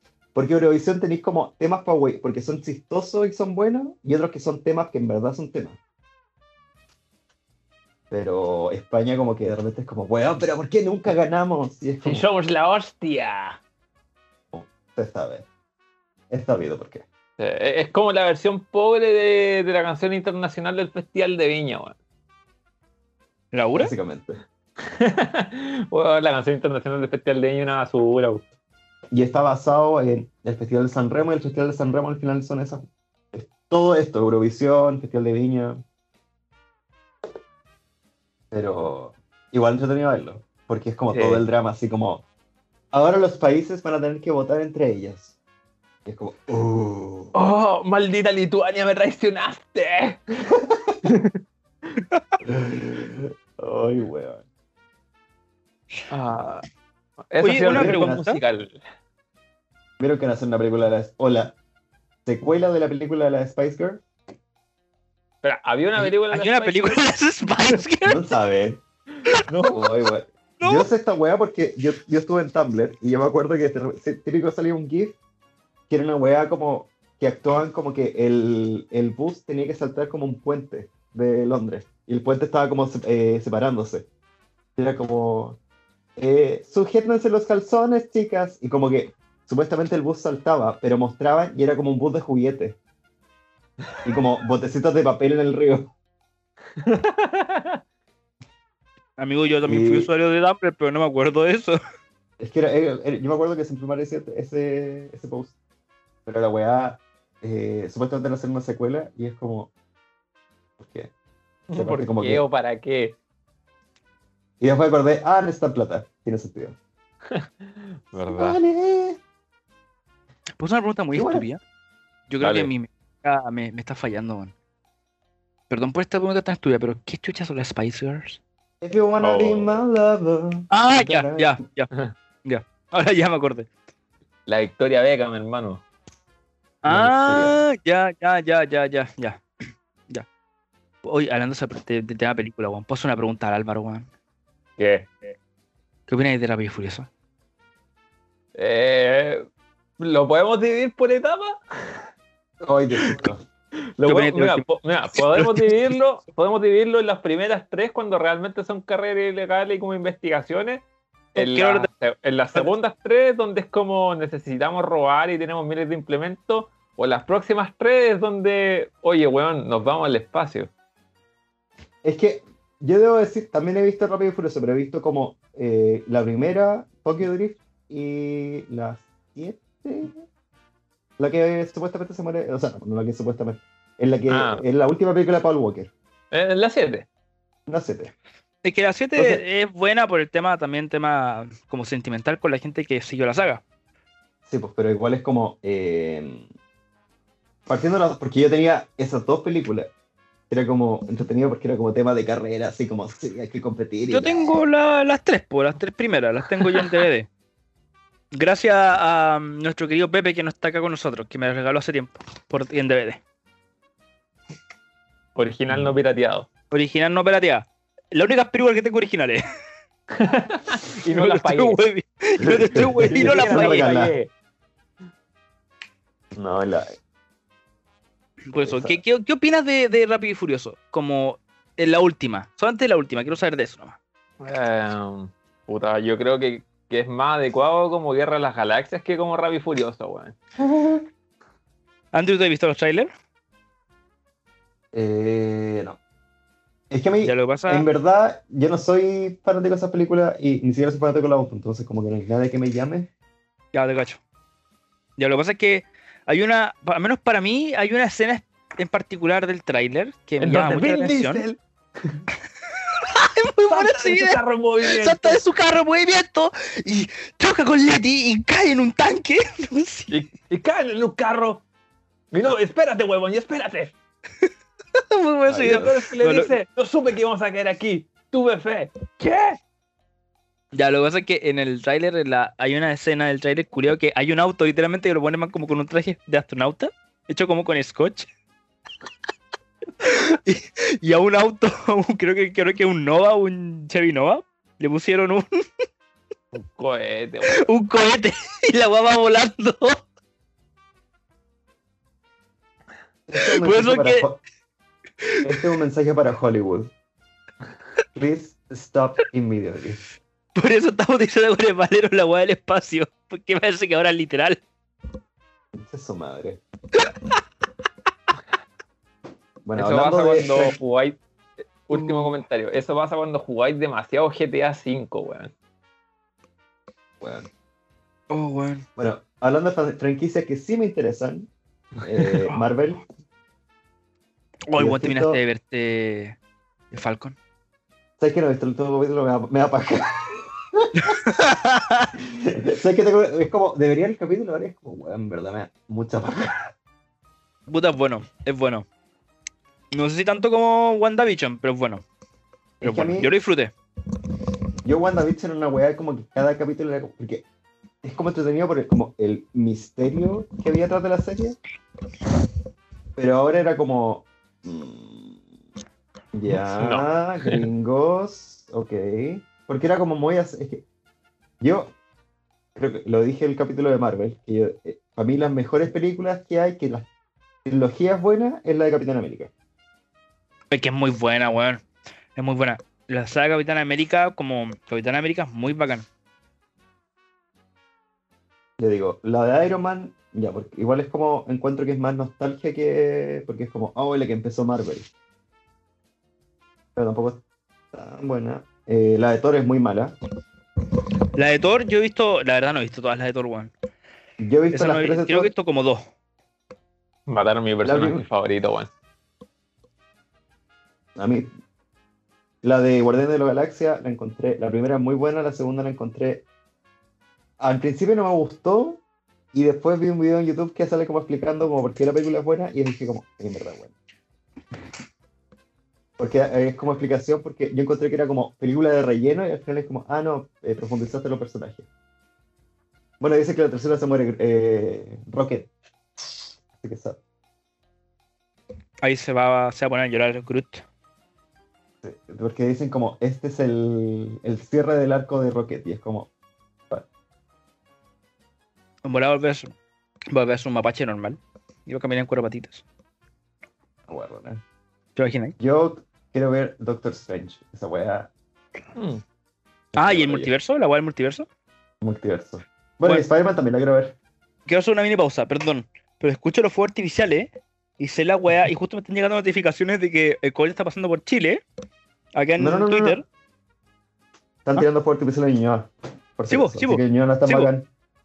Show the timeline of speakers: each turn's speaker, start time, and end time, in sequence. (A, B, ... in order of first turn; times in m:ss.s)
0:00.3-0:05.8 A
0:08.1-0:12.3 A
0:12.0-0:13.6 B
0:14.5-0:15.5 A
0:16.3-0:17.1 A
0:17.4-0:22.0 B
0:23.5-0:23.9 C
0:23.8-0:24.4 A
0:24.8-0:28.4 B
0:29.1-0:35.8 A
0:38.5-0:42.2 A
0:41.1-0:41.4 B
0:42.9-0:45.4 A
0:46.0-0:47.3 A
0:47.3-0:50.2 B
0:50.5-0:51.0 A
0:51.0-0:51.4 B
0:52.4-0:54.4 A
0:56.1-0:56.6 B
0:57.3-0:58.8 B
0:57.4-0:58.4 C
0:57.7-0:58.3 A
1:00.0-1:01.6 A
1:02.2-1:04.0 A
1:05.4-1:07.0 B
1:06.0-1:08.2 C
1:08.0-1:08.8 A
1:09.5-1:09.8 B
1:09.6-1:15.2 A
1:10.6-1:10.9 C
1:15.9-1:24.1 A
1:24.8-1:25.6 A
1:26.2-1:32.8 A
1:34.0-1:35.9 A
1:36.8-1:37.8 B
1:39.2-1:41.8 C
1:39.6-1:40.1 A
1:42.4-1:45.5 A
1:46.3-1:49.7 A
1:50.8-1:51.1 A
1:51.7-1:53.2 B
1:51.7-1:52.4 A
1:54.6-1:56.8 A
1:57.3-1:58.6 B
1:58.2-1:59.2 A
2:00.6-2:01.6 C
2:01.1-2:01.5 A
2:02.3-2:04.5 C
2:02.4-2:02.7 B
2:05.7-2:08.4 C
2:08.8-2:11.6 A
2:09.2-2:09.8 B
2:10.7-2:11.9 C
2:12.4-2:13.7 C
2:14.5-2:15.8 B
2:16.8-2:19.4 C
2:16.9-2:17.6 A
2:21.0-2:24.1 C
2:24.8-2:25.1 B
2:26.1-2:27.1 C
2:28.6-2:29.4 B
2:30.0-2:31.6 B
2:32.6-2:33.4 A
2:34.0-2:50.7 B
2:34.1-2:35.8 C
2:41.4-2:41.9 C
2:52.0-3:00.2 A
3:01.2-3:05.9 A
3:04.3-3:04.6 B
3:06.3-3:07.1 B
3:07.7-3:08.1 A
3:08.6-3:13.6 C
3:09.2-3:09.4 A
3:14.5-3:16.5 A
3:17.7-3:19.9 A
3:20.5-3:24.5 A
3:24.1-3:27.3 C
3:28.3-3:33.2 C
3:35.4-3:36.5 B
3:36.7-3:39.4 C
3:40.1-3:41.8 B
3:41.1-3:43.9 C
3:42.4-3:44.2 A
3:43.0-3:44.3 B
3:46.3-3:47.0 A
3:48.5-3:54.0 C
3:48.6-3:49.0 A
3:54.4-4:00.4 B
4:00.6-4:01.0 A
4:02.1-4:03.1 C
4:04.9-4:06.0 A
4:06.9-4:13.1 A
4:07.2-4:07.9 C
4:13.7-4:14.2 C
4:15.2-4:21.4 C
4:20.4-4:22.2 B
4:22.9-4:30.1 C
4:23.7-4:25.4 B
4:30.1-4:31.6 B
4:32.3-4:33.9 B
4:34.9-4:36.6 C
4:35.5-4:35.9 A
4:35.6-4:39.6 B
4:40.7-4:48.3 C
4:50.0-4:55.5 C
4:56.5-4:57.6 B
4:57.5-5:00.0 C
5:03.3-5:04.4 A
5:03.4-5:04.3 C
5:05.4-5:06.9 A
5:08.2-5:10.0 A
5:10.6-5:14.6 C
5:15.8-5:16.6 A
5:19.6-5:20.8 A
5:19.8-5:21.2 B
5:21.9-5:25.5 B
5:21.9-5:22.3 C
5:27.2-5:27.5 A
5:28.3-5:28.8 C
5:29.0-5:31.5 A
5:32.0-5:33.0 A
5:34.7-5:36.4 C
5:34.8-5:35.4 A
5:36.9-5:37.4 C
5:38.2-5:41.1 A
5:41.2-5:42.1 C
5:42.3-5:46.7 A
5:47.7-5:48.9 C
5:49.9-5:52.0 C
5:52.8-5:53.3 A
5:52.8-5:53.7 C
5:54.8-5:57.4 A
5:58.0-6:01.6 A
6:03.2-6:05.4 A
6:06.3-6:10.8 A
6:06.5-6:07.7 B
6:11.6-6:11.9 A
6:12.8-6:17.1 A
6:17.6-6:19.5 A
6:20.7-6:21.8 C
6:22.4-6:26.1 C
6:28.8-6:35.1 A
6:37.0-6:37.4 A
6:37.9-6:40.2 A
6:41.3-6:43.7 C
6:44.4-6:45.5 A
6:44.7-6:46.0 C
6:47.3-6:48.9 B
6:47.8-6:48.2 A
6:51.2-6:51.5 A
6:52.6-6:56.4 A
6:57.6-6:59.0 A
6:59.5-7:03.9 A
7:06.2-7:11.9 A
7:13.2-7:15.7 A
7:16.8-7:17.2 A
7:19.0-7:20.8 C
7:22.0-7:26.3 A
7:29.0-7:29.7 C
7:30.3-7:32.8 C
7:34.1-7:34.6 A
7:35.2-7:35.5 C
7:35.6-7:38.3 A
7:39.0-7:39.2 B
7:39.9-7:40.5 A
7:40.0-7:41.5 C
7:42.0-7:44.2 A
7:44.7-7:51.6 C
7:52.4-7:53.2 C
7:52.6-7:53.2 A
7:54.6-7:57.9 A
7:56.5-7:57.7 C